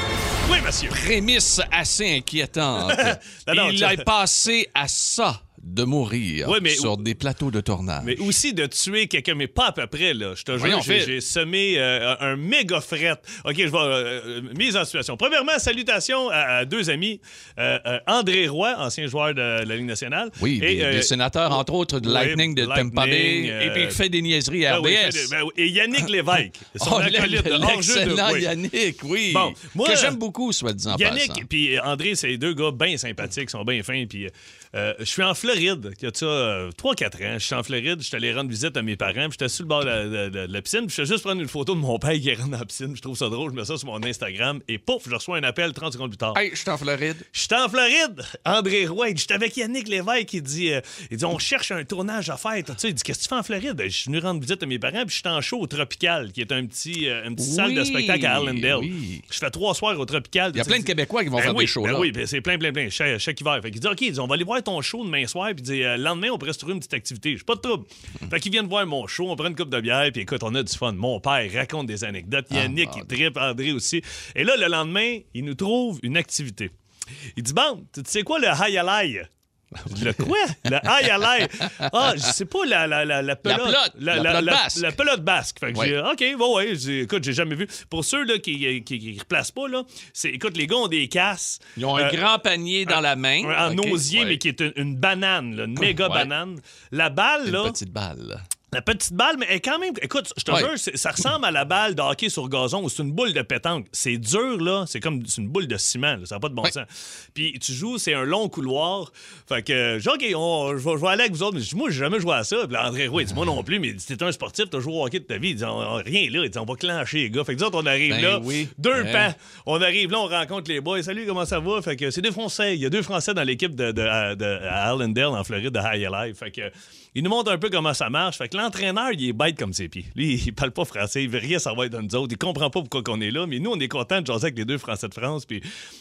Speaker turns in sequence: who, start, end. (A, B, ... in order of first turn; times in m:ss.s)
0:00.4-0:01.0 A
0:00.9-0:08.3 B
0:02.8-0:04.0 A
0:06.4-0:07.0 A
0:08.0-0:24.0 A
0:10.5-0:11.1 B
0:20.4-0:25.3 B
0:24.7-0:28.5 A
0:26.8-0:31.4 B
0:29.3-0:30.2 A
0:30.9-0:46.4 A
0:46.3-0:47.2 B
0:47.3-1:16.7 A
0:57.4-0:59.2 B
1:00.5-1:02.1 B
1:12.5-1:13.1 B
1:17.4-1:19.3 A
1:19.8-1:20.2 B
1:19.9-1:32.2 A
1:23.4-1:24.9 B
1:31.8-1:34.4 B
1:32.9-1:37.7 A
1:35.8-1:36.3 B
1:37.4-1:38.4 B
1:38.7-2:15.6 A
1:58.1-1:59.3 B